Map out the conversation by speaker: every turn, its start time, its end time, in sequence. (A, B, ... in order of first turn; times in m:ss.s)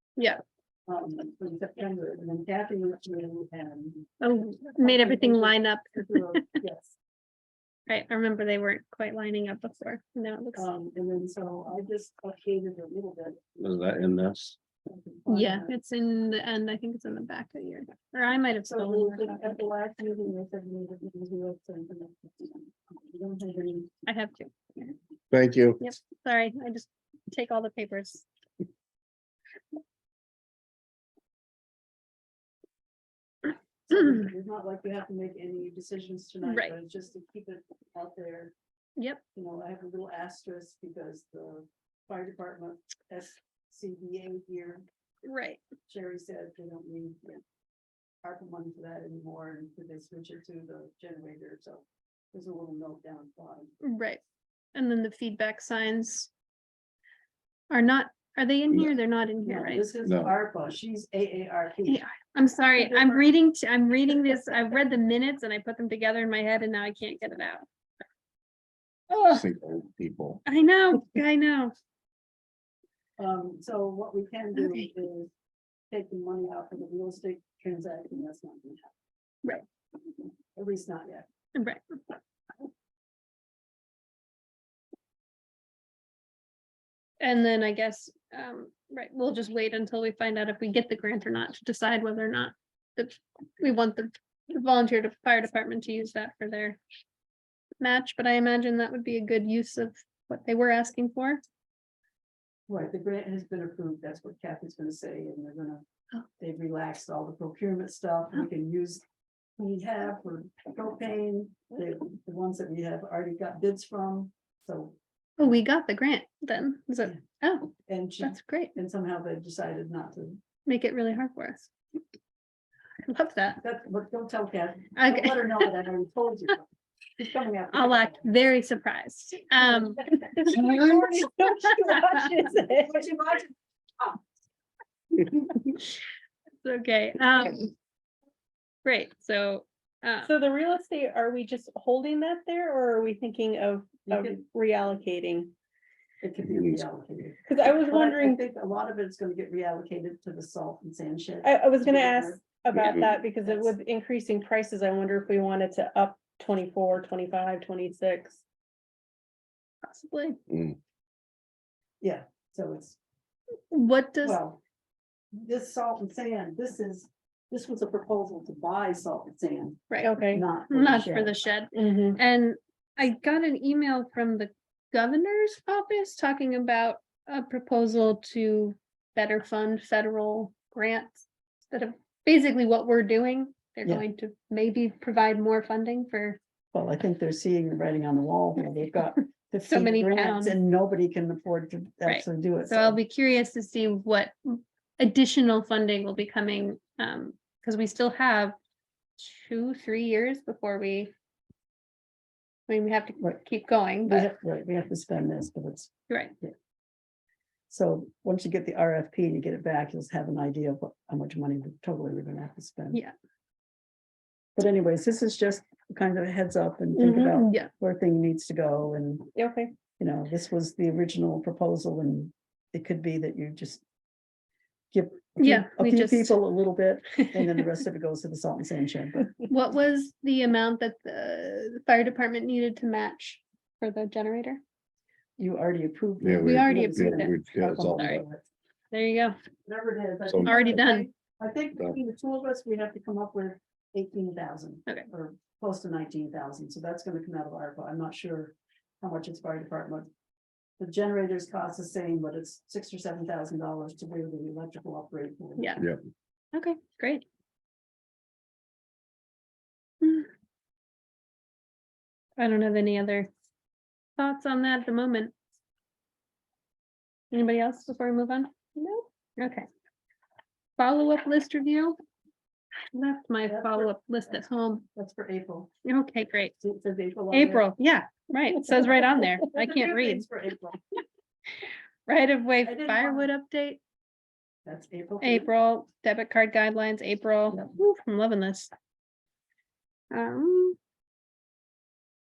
0:00.2-0:00.4 A
0:00.9-0:07.0 B
0:04.2-0:06.6 A
0:07.9-0:10.7 A
0:10.6-0:13.4 B
0:13.6-0:14.6 C
0:14.8-0:15.7 B
0:15.3-0:19.5 A
0:18.7-0:23.9 B
0:24.0-0:24.9 A
0:25.3-0:25.8 C
0:25.8-0:28.2 A
0:33.9-0:38.5 B
0:36.4-0:36.7 A
0:39.3-0:44.8 B
0:45.2-0:45.6 A
0:45.9-0:47.4 B
0:48.2-0:53.7 B
0:53.8-0:54.2 A
0:54.7-0:56.3 A
0:57.7-0:59.8 A
0:59.4-1:02.0 B
1:00.0-1:00.3 C
1:01.9-1:07.6 A
1:02.8-1:03.2 B
1:09.2-1:10.4 C
1:10.4-1:11.7 A
1:13.2-1:15.3 B
1:14.6-1:14.9 A
1:15.9-1:18.9 B
1:20.5-1:21.2 B
1:21.5-1:21.8 A
1:27.2-1:36.8 A
1:37.8-1:41.4 A
1:42.7-1:45.8 B
1:46.4-1:49.0 B
1:49.6-1:55.0 B
1:55.4-1:57.7 A
1:57.8-2:00.4 B
1:58.2-1:58.7 A
2:00.6-2:01.7 A
2:03.0-2:03.6 A
2:03.6-2:06.6 B
2:05.0-2:05.7 A
2:07.2-2:08.2 B
2:07.7-2:10.6 A
2:09.6-2:14.2 B
2:10.3-2:12.9 D
2:12.0-2:12.5 A
2:16.6-2:17.7 A
2:18.8-2:20.3 A
2:20.2-2:25.5 D
2:24.1-2:24.4 B
2:26.2-2:33.7 B
2:27.5-2:28.4 D
2:31.4-2:38.4 D
2:39.8-2:40.4 A
2:40.5-2:40.8 C
2:42.0-2:43.0 B
2:43.7-2:44.4 A
2:44.2-2:44.6 B
2:45.3-2:51.4 B
2:49.9-3:06.4 A
2:50.0-2:50.4 D
2:51.7-2:52.2 D
3:06.7-3:13.0 B
3:09.6-3:10.6 A
3:12.0-3:18.6 A
3:19.2-3:21.1 A
3:22.7-3:24.3 A
3:24.0-3:26.5 B
3:27.7-3:33.0 B
3:34.6-3:39.3 B
3:37.0-3:37.7 A
3:39.3-3:39.7 D
3:40.0-3:43.8 B
3:44.9-3:49.5 B
3:45.4-3:46.4 A
3:47.2-3:47.4 A
3:49.5-3:54.6 A
3:55.4-3:58.4 B
3:56.2-3:58.2 C
3:56.4-3:57.3 A
3:58.9-3:59.4 A
3:59.6-4:10.1 B
4:00.3-4:00.5 C
4:00.4-4:01.1 A
4:10.8-4:15.8 B
4:15.6-4:15.8 A
4:16.5-4:17.2 A
4:20.0-4:20.3 A
4:22.4-4:23.3 A
4:24.2-4:25.3 A
4:27.3-4:28.8 A
4:29.4-4:29.6 A
4:30.8-4:32.0 A
4:32.9-4:34.8 A
4:33.5-4:33.9 B
4:34.9-4:35.7 B
4:35.8-4:36.5 A
4:36.6-4:37.7 B
4:37.3-4:40.2 A
4:38.8-4:40.8 B
4:42.1-4:43.8 A
4:42.6-4:43.3 B
4:44.6-4:45.5 B
4:45.2-4:48.7 A
4:50.1-4:50.8 A